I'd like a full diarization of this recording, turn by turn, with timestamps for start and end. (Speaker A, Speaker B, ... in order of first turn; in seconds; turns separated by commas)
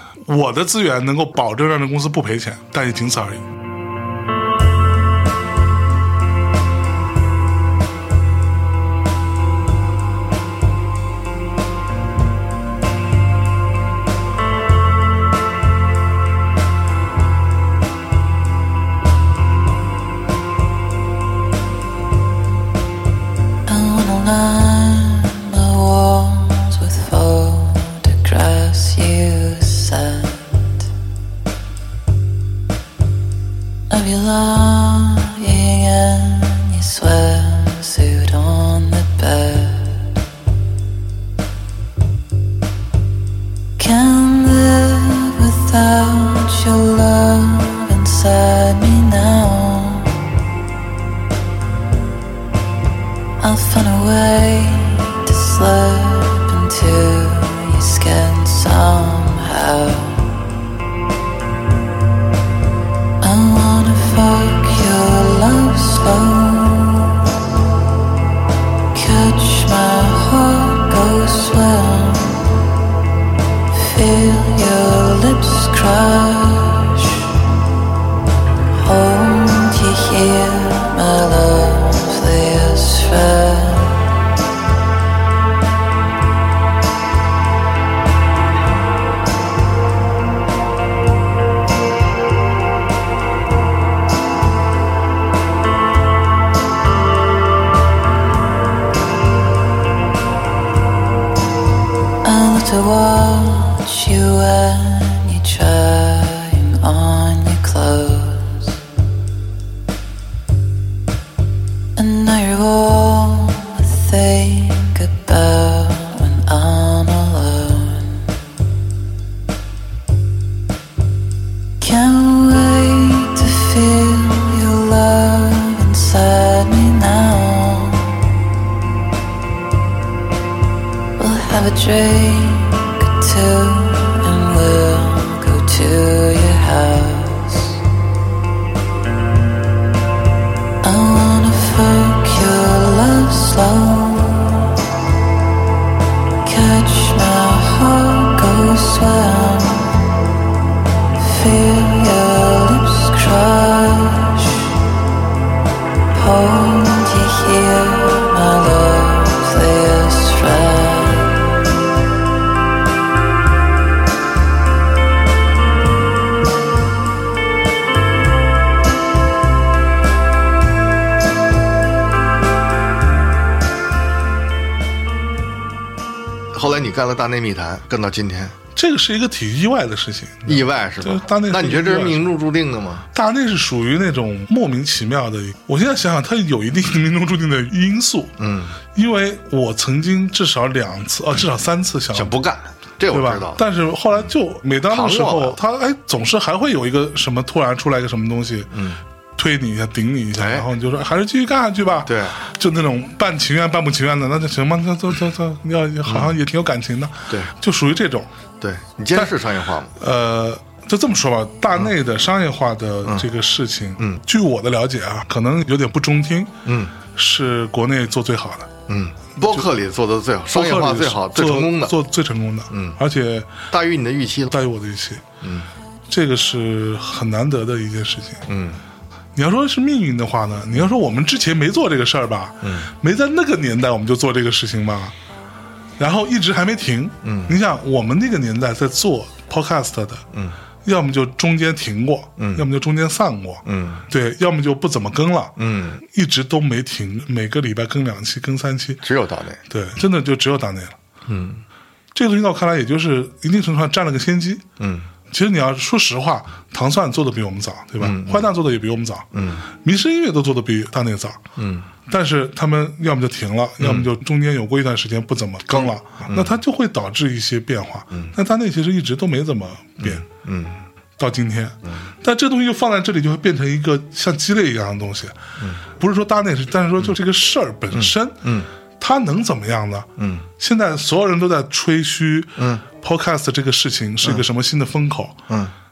Speaker A: 0.2-3.5, Speaker B: 23.7-30.9, Speaker B: 33.9-40.2, Speaker B: 43.8-50.3, Speaker B: 53.4-60.5, Speaker B: 63.2-67.3, Speaker B: 68.9-72.6, Speaker B: 73.7-77.5, Speaker B: 78.7-84.2, Speaker B: 102.2-108.8, Speaker B: 112.0-118.4, Speaker B: 121.8-128.4, Speaker B: 131.2-137.8, Speaker B: 140.8-144.8, Speaker B: 146.4-150.3, Speaker B: 151.2-154.8, Speaker B: 156.1-161.7, Speaker C: 176.5-178.6, Speaker A: 178.8-182.3, Speaker C: 180.5-183.1, Speaker A: 183.1-188.3, Speaker C: 188.4-188.8, Speaker A: 188.9-192.3, Speaker C: 192.1-193.6, Speaker A: 193.1-198.7, Speaker C: 194.9-195.6, Speaker C: 198.7-199.0, Speaker A: 199.4-208.3, Speaker C: 200.4-200.7, Speaker C: 202.1-202.4, Speaker C: 206.1-206.3, Speaker C: 208.6-210.0, Speaker A: 210.0-216.6, Speaker C: 216.7-216.9, Speaker A: 217.1-218.7, Speaker C: 218.9-221.9, Speaker A: 220.5-223.6, Speaker C: 222.7-223.0, Speaker C: 223.7-224.5, Speaker A: 224.5-225.2, Speaker C: 225.4-225.7, Speaker A: 226.1-228.5, Speaker C: 228.5-228.8, Speaker A: 229.3-235.2, Speaker C: 232.6-232.9, Speaker A: 236.0-240.2, Speaker C: 237.2-237.6, Speaker A: 240.8-249.0, Speaker C: 242.4-242.7, Speaker C: 243.7-244.1, Speaker C: 245.6-246.0, Speaker C: 249.0-249.6, Speaker A: 249.7-251.0, Speaker C: 251.3-251.6, Speaker A: 252.1-254.7, Speaker C: 254.8-255.1, Speaker A: 255.3-261.4, Speaker C: 258.0-258.5, Speaker C: 259.3-259.7, Speaker C: 261.6-261.9, Speaker A: 262.1-270.2, Speaker C: 263.8-264.1, Speaker C: 265.7-266.6, Speaker C: 270.0-270.8, Speaker A: 271.2-275.4, Speaker C: 271.9-272.1, Speaker A: 275.9-278.4, Speaker C: 277.9-278.7, Speaker A: 279.0-285.4, Speaker C: 280.2-280.5, Speaker C: 282.6-282.8